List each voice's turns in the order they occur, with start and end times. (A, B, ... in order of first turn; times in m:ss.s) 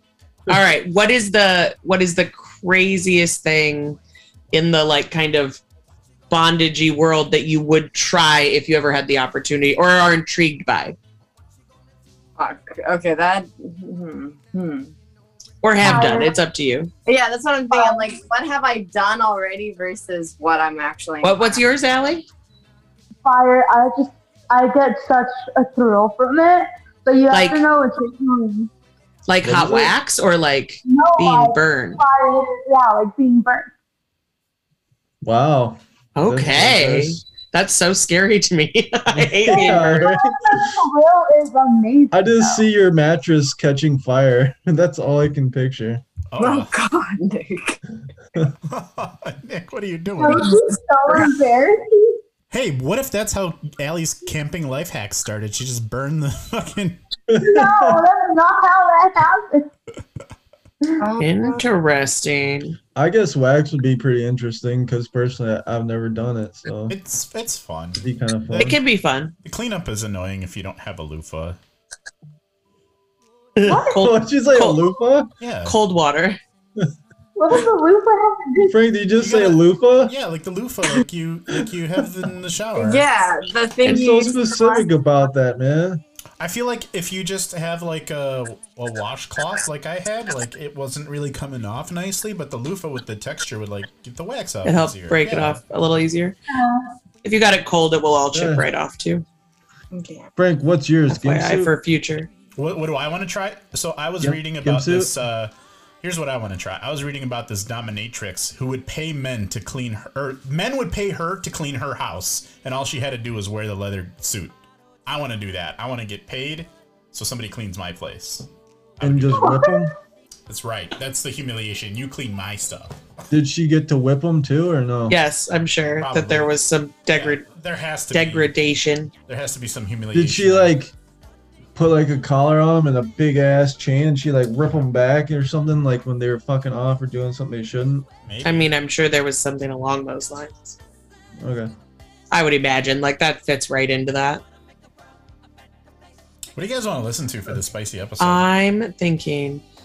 0:00.5-0:04.0 A
0:04.5-0:05.6 A
0:06.3-0:11.0 A
0:12.4-0:14.9 B
0:15.6-0:16.9 A
0:15.8-0:16.4 C
0:17.0-0:21.7 B
0:17.7-0:18.0 C
0:21.2-0:22.2 A
0:23.2-0:28.7 C
0:27.3-0:27.6 A
0:29.3-0:32.0 A
0:29.4-0:29.9 D
0:30.8-0:33.7 C
0:35.2-0:37.2 D
0:36.2-0:40.1 A
0:39.1-0:40.7 D
0:39.5-0:42.6 C
0:42.1-0:46.0 D
0:46.3-0:46.7 E
0:46.4-0:47.8 B
0:48.7-0:50.7 E
0:50.2-0:52.2 C
0:52.5-0:57.0 E
0:57.3-0:58.0 D
0:57.4-0:59.7 C
1:01.0-1:01.6 B
1:01.2-1:02.8 A
1:02.9-1:07.0 D
1:06.9-1:08.8 E
1:08.0-1:08.8 D
1:08.6-1:09.3 A
1:09.4-1:11.6 E
1:13.6-1:14.9 A
1:13.6-1:14.0 C
1:13.9-1:15.3 D
1:15.4-1:15.8 E
1:15.6-1:16.4 A
1:17.4-1:18.8 C
1:18.6-1:20.1 D
1:19.2-1:23.0 E
1:22.8-1:24.9 B
1:23.8-1:26.0 D
1:26.4-1:35.6 E
1:34.6-1:36.4 A
1:36.5-1:36.9 C
1:37.2-1:39.2 A
1:38.3-1:38.6 D
1:39.9-1:40.3 B
1:40.4-1:41.7 D
1:41.1-1:42.3 A
1:42.6-1:58.4 E
1:44.2-1:45.1 D
1:59.0-1:59.6 E
1:59.0-1:59.9 D
1:59.3-1:59.8 C
2:00.5-2:03.0 E
2:03.3-2:05.2 D
2:05.1-2:07.5 A
2:06.0-2:06.6 E
2:07.1-2:08.5 E
2:08.1-2:09.1 A
2:09.2-2:10.7 E
2:10.1-2:10.9 D
2:11.7-2:18.1 D
2:18.2-2:18.7 E
2:18.4-2:20.8 A
2:21.4-2:21.7 D
2:22.3-2:24.4 A
2:26.5-2:28.4 E
2:28.2-2:29.6 A